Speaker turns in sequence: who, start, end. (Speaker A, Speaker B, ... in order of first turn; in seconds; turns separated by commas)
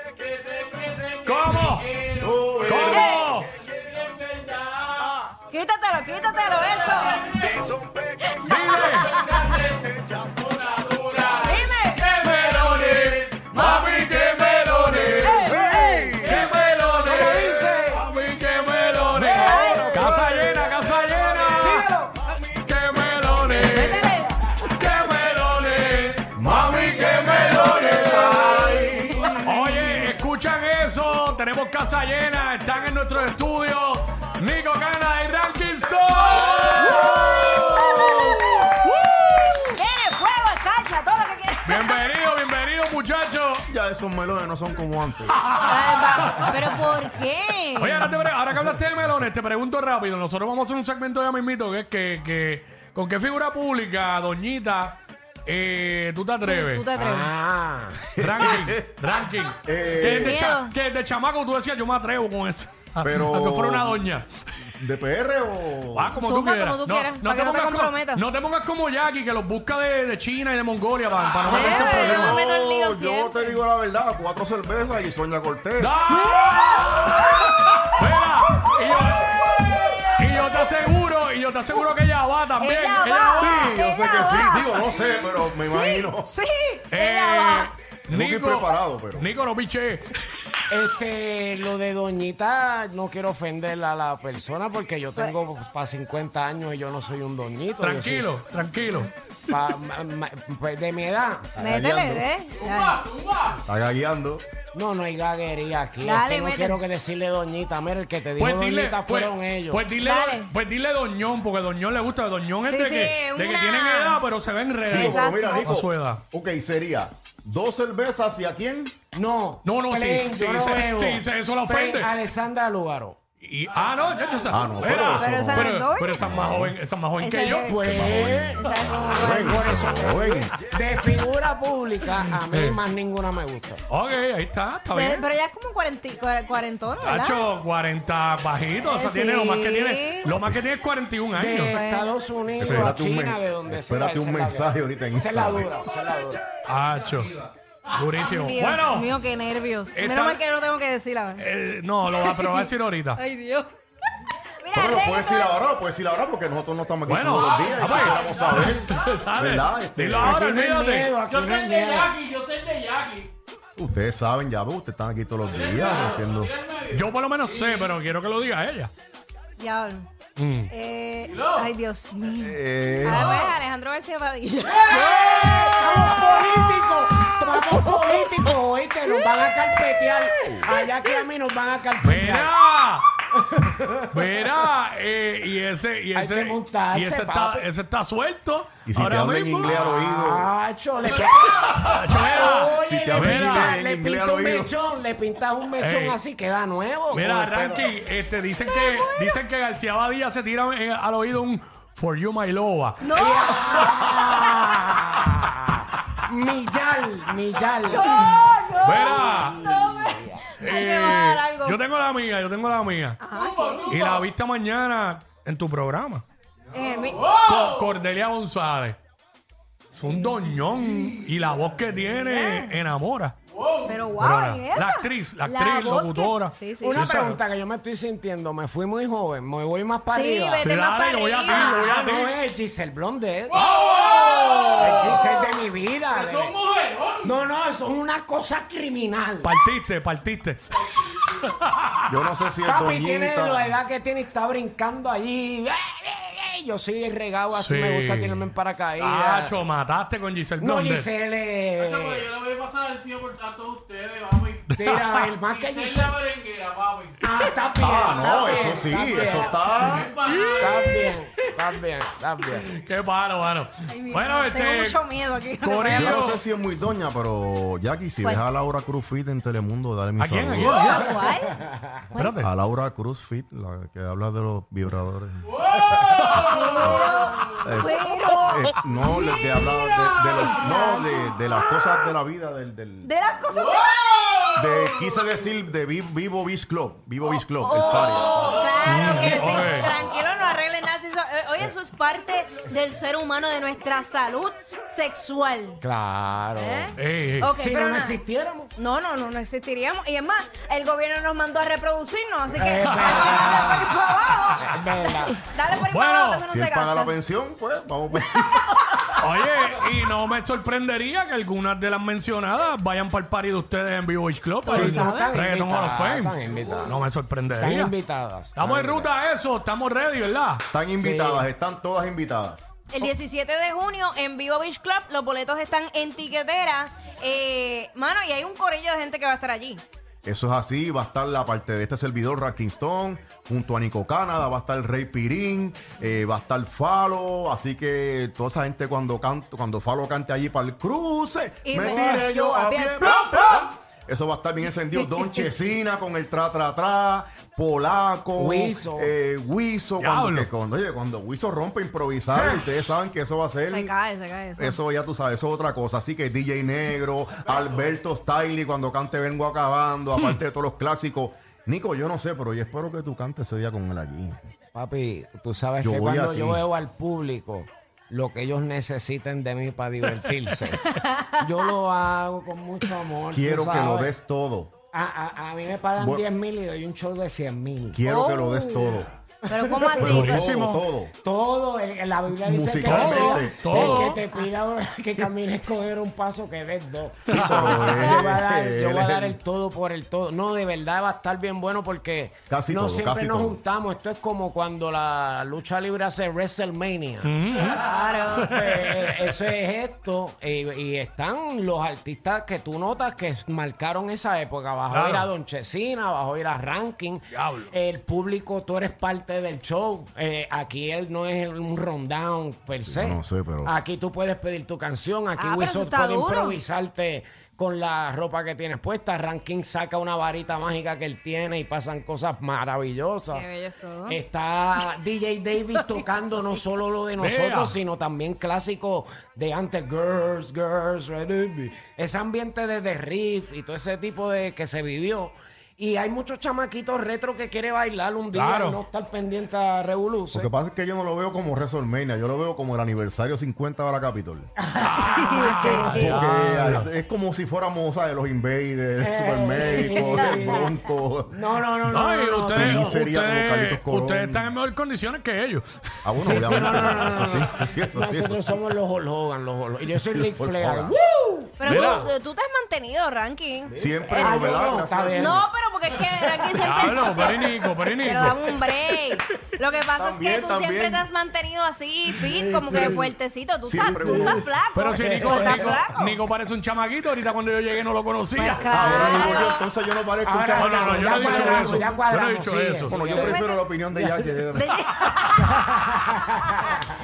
Speaker A: 0.2-1.2, Speaker B: 1.2-1.9, Speaker C: 2.1-3.6, Speaker B: 2.6-3.5, Speaker D: 2.9-3.2, Speaker A: 4.0-5.0, Speaker C: 5.0-5.3, Speaker D: 5.4-7.2, Speaker C: 7.1-11.4, Speaker D: 8.2-9.6, Speaker B: 8.4-9.2, Speaker D: 11.3-12.1, Speaker B: 12.1-15.6, Speaker D: 15.0-16.2, Speaker C: 15.2-16.6, Speaker B: 16.2-21.9, Speaker E: 17.0-18.1, Speaker C: 19.1-20.9, Speaker E: 19.2-20.2, Speaker D: 19.3-19.9, Speaker E: 21.4-22.1, Speaker B: 22.5-28.7, Speaker D: 23.6-24.4, Speaker C: 26.4-29.6, Speaker B: 29.4-39.8, Speaker D: 36.6-38.7, Speaker D: 39.7-42.0, Speaker B: 41.6-43.6, Speaker C: 43.7-45.4, Speaker B: 45.4-46.5, Speaker D: 45.6-48.1, Speaker B: 47.8-56.9, Speaker D: 56.4-57.3, Speaker E: 56.9-58.1, Speaker C: 58.1-59.0, Speaker B: 58.2-64.3, Speaker C: 59.6-60.4, Speaker D: 59.9-60.7, Speaker C: 63.0-64.0, Speaker C: 64.7-66.2, Speaker B: 65.9-72.4, Speaker D: 66.1-68.2, Speaker D: 71.4-73.6, Speaker C: 71.5-76.0, Speaker B: 75.8-79.5, Speaker D: 76.2-77.8, Speaker B: 80.0-83.7, Speaker D: 82.6-87.7, Speaker C: 83.4-86.3, Speaker B: 86.9-90.2, Speaker C: 88.1-89.3, Speaker E: 90.7-98.3, Speaker B: 97.8-99.1, Speaker E: 99.5-101.5, Speaker C: 101.6-102.3, Speaker D: 101.6-103.0, Speaker A: 103.1-103.5, Speaker C: 103.6-104.4, Speaker E: 104.7-109.8, Speaker D: 106.0-106.8, Speaker B: 108.4-116.2, Speaker D: 110.0-110.5, Speaker D: 112.6-114.2, Speaker C: 114.9-118.9, Speaker D: 114.9-115.7, Speaker E: 119.1-123.2, Speaker B: 119.6-122.1, Speaker B: 123.4-127.8, Speaker C: 124.5-126.7, Speaker D: 125.0-126.3, Speaker D: 127.2-127.8, Speaker E: 127.7-133.8, Speaker C: 127.8-130.5, Speaker D: 128.6-130.0, Speaker B: 132.2-132.8, Speaker B: 133.9-135.2, Speaker D: 134.9-137.4, Speaker B: 137.0-141.8, Speaker D: 138.8-140.3, Speaker E: 141.3-146.4, Speaker D: 141.7-142.1, Speaker C: 142.6-145.7, Speaker B: 142.6-142.9, Speaker B: 146.7-147.3, Speaker B: 147.9-149.1, Speaker D: 148.2-151.4, Speaker B: 149.9-150.4, Speaker B: 151.4-153.2, Speaker D: 152.1-153.7, Speaker D: 154.6-155.5, Speaker C: 154.7-160.4, Speaker B: 157.1-161.2, Speaker E: 160.2-162.2, Speaker A: 161.4-163.3, Speaker C: 163.8-166.5, Speaker A: 165.6-166.9, Speaker B: 166.9-168.9, Speaker D: 169.6-170.1, Speaker B: 170.4-170.7, Speaker D: 170.7-175.2, Speaker C: 172.4-173.6, Speaker E: 174.9-182.5, Speaker B: 182.0-183.1, Speaker E: 183.6-184.0, Speaker B: 184.0-189.9, Speaker E: 186.1-187.7, Speaker C: 188.8-190.5, Speaker E: 189.6-197.9, Speaker B: 191.7-193.7, Speaker C: 192.8-194.7, Speaker B: 195.8-196.2, Speaker B: 197.1-203.2, Speaker D: 198.7-199.3, Speaker D: 203.0-203.8, Speaker E: 203.1-208.3, Speaker D: 207.9-211.8, Speaker B: 208.8-209.6, Speaker E: 209.2-210.5, Speaker B: 210.6-213.2, Speaker D: 213.2-214.2, Speaker B: 213.8-216.2, Speaker D: 216.7-217.5, Speaker B: 217.3-219.0, Speaker B: 219.9-223.3, Speaker D: 222.2-222.7, Speaker D: 223.8-227.1, Speaker B: 224.2-227.4, Speaker E: 226.8-230.7, Speaker D: 230.1-231.9, Speaker B: 230.6-232.3, Speaker E: 231.5-236.6, Speaker D: 234.0-235.3, Speaker A: 236.4-237.1, Speaker E: 237.2-239.5, Speaker B: 239.4-242.1, Speaker C: 242.1-243.7, Speaker E: 242.6-249.6, Speaker B: 247.5-251.1, Speaker E: 250.6-252.3, Speaker A: 251.9-254.6, Speaker E: 254.7-256.2, Speaker B: 254.8-255.2, Speaker A: 255.7-257.1, Speaker E: 257.2-262.7, Speaker C: 257.8-260.1, Speaker B: 260.2-261.2, Speaker B: 262.6-265.1, Speaker D: 263.9-266.3, Speaker B: 265.6-266.4, Speaker C: 265.9-271.0, Speaker D: 268.2-268.5, Speaker B: 270.2-271.1, Speaker D: 270.6-271.6, Speaker E: 271.6-272.0, Speaker B: 272.1-272.5, Speaker C: 272.4-275.6, Speaker B: 276.2-276.4, Speaker D: 276.3-281.9, Speaker C: 276.8-283.1, Speaker D: 283.0-284.1, Speaker C: 284.5-288.8, Speaker D: 287.6-295.8, Speaker B: 288.8-289.9, Speaker E: 295.8-296.9, Speaker D: 296.6-298.2, Speaker B: 297.0-297.5, Speaker E: 297.6-298.7, Speaker D: 298.8-307.1, Speaker E: 302.5-303.9, Speaker B: 302.9-303.2, Speaker E: 304.6-305.4, Speaker B: 305.8-306.4, Speaker C: 306.5-309.2, Speaker B: 309.2-317.9, Speaker D: 314.6-315.4, Speaker E: 314.7-319.1, Speaker B: 318.6-320.6, Speaker C: 320.7-322.7, Speaker E: 321.0-321.4, Speaker D: 322.9-329.8, Speaker C: 330.2-353.9, Speaker D: 341.6-343.7, Speaker E: 341.9-342.2, Speaker E: 348.4-349.1, Speaker B: 350.0-350.5, Speaker D: 353.6-354.8, Speaker C: 354.6-364.5, Speaker B: 360.1-360.4, Speaker E: 364.7-374.1, Speaker C: 365.8-366.6, Speaker D: 370.8-371.4, Speaker C: 373.3-374.7, Speaker E: 374.9-378.0, Speaker C: 376.0-376.2, Speaker C: 377.9-379.1, Speaker D: 378.1-380.5, Speaker E: 379.5-380.2, Speaker C: 380.0-381.1, Speaker B: 380.0-380.8, Speaker E: 381.2-423.4, Speaker C: 382.4-384.1, Speaker B: 382.9-384.2, Speaker D: 383.9-384.2, Speaker C: 387.3-389.4, Speaker B: 387.3-388.0, Speaker C: 392.5-393.6, Speaker B: 397.2-397.9, Speaker D: 397.9-398.5, Speaker B: 398.4-399.1, Speaker B: 404.9-405.3, Speaker B: 407.3-407.7, Speaker C: 412.9-413.7, Speaker D: 415.4-416.6, Speaker D: 423.3-424.2, Speaker E: 424.1-440.5, Speaker B: 427.2-427.8, Speaker B: 438.3-438.8, Speaker C: 440.3-444.5, Speaker E: 444.6-446.2, Speaker B: 444.8-446.9, Speaker D: 445.1-446.2, Speaker C: 445.7-451.3, Speaker E: 449.0-450.7, Speaker D: 449.9-450.5, Speaker E: 451.3-453.0, Speaker B: 451.9-457.3, Speaker C: 452.5-454.5, Speaker C: 456.0-458.6, Speaker E: 456.2-462.0, Speaker C: 459.9-460.9, Speaker D: 461.6-464.6, Speaker B: 461.6-462.1, Speaker E: 463.7-465.4, Speaker C: 463.7-465.4, Speaker D: 465.1-476.2, Speaker E: 466.0-466.5, Speaker B: 466.6-468.4, Speaker C: 469.9-471.1, Speaker E: 472.3-473.1, Speaker C: 472.7-473.0, Speaker C: 473.6-474.5, Speaker E: 473.8-475.8, Speaker B: 474.7-479.4, Speaker D: 478.3-479.6, Speaker C: 478.7-481.9, Speaker E: 478.8-479.5, Speaker E: 480.2-483.4, Speaker B: 480.6-483.1, Speaker C: 482.9-484.8, Speaker D: 483.1-483.6, Speaker E: 483.9-484.3, Speaker D: 484.5-485.8, Speaker E: 485.4-486.8